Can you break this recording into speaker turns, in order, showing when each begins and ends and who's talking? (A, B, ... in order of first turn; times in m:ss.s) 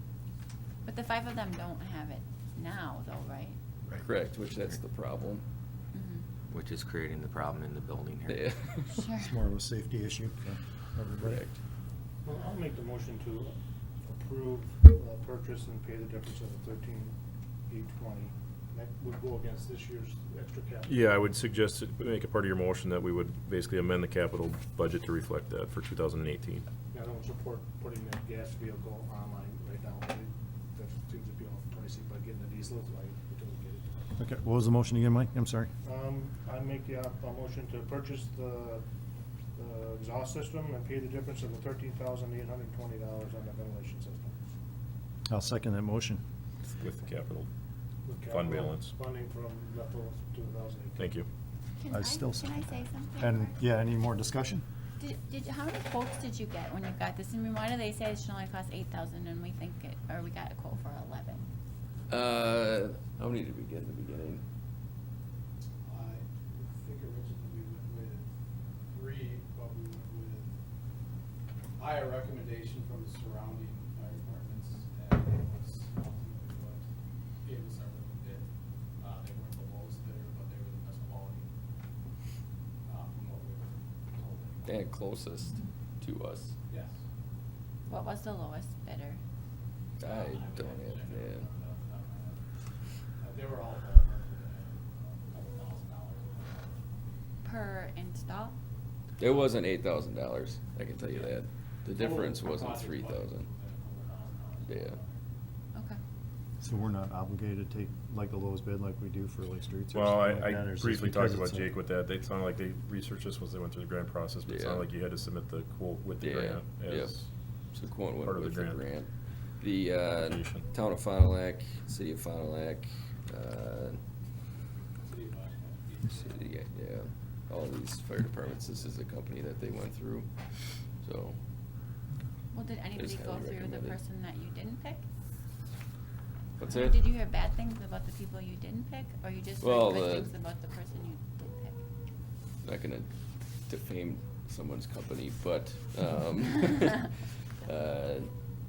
0:00.8-0:03.6 A
0:03.9-0:05.4 B
0:05.9-0:06.3 A
0:06.5-0:08.5 C
0:08.3-0:08.7 B
0:09.0-0:09.3 A
0:09.2-0:11.4 D
0:11.2-0:11.6 B
0:12.2-0:13.5 E
0:14.1-0:17.2 E
0:17.7-0:21.0 E
0:20.9-0:26.7 F
0:26.9-0:34.2 E
0:34.2-0:35.7 D
0:35.8-0:38.8 E
0:39.6-0:44.4 E
0:45.3-0:46.2 D
0:46.7-0:47.5 F
0:48.0-0:51.1 E
0:48.2-0:48.9 F
0:51.0-0:51.3 F
0:51.8-0:53.6 A
0:51.9-0:54.6 D
0:55.0-1:01.5 A
1:02.1-1:04.4 B
1:05.9-1:08.3 G
1:08.9-1:10.5 G
1:11.8-1:16.8 G
1:17.4-1:18.5 G
1:19.0-1:21.5 G
1:22.9-1:24.8 G
1:24.6-1:26.5 B
1:26.7-1:27.0 G
1:27.9-1:29.2 A
1:30.0-1:31.5 B
1:30.0-1:32.4 G
1:33.2-1:36.8 G
1:37.4-1:38.6 A
1:39.2-1:43.5 B
1:41.1-1:41.4 G
1:41.9-1:45.2 G
1:44.7-1:45.0 B
1:45.7-1:46.0 A
1:46.6-1:51.7 D
1:49.9-1:57.3 F
1:54.5-1:54.8 B
1:56.2-1:57.2 B
1:57.7-2:04.0 B
1:58.2-1:58.8 F
2:00.1-2:00.6 F
2:05.0-2:06.5 G
2:06.2-2:10.3 B
2:11.0-2:11.4 B
2:12.5-2:15.0 A
2:13.0-2:14.0 B
2:16.6-2:17.0 B
2:16.7-2:21.8 A
2:19.6-2:20.3 B
2:22.6-2:23.1 B
2:23.7-2:27.1 B
2:27.6-2:28.3 B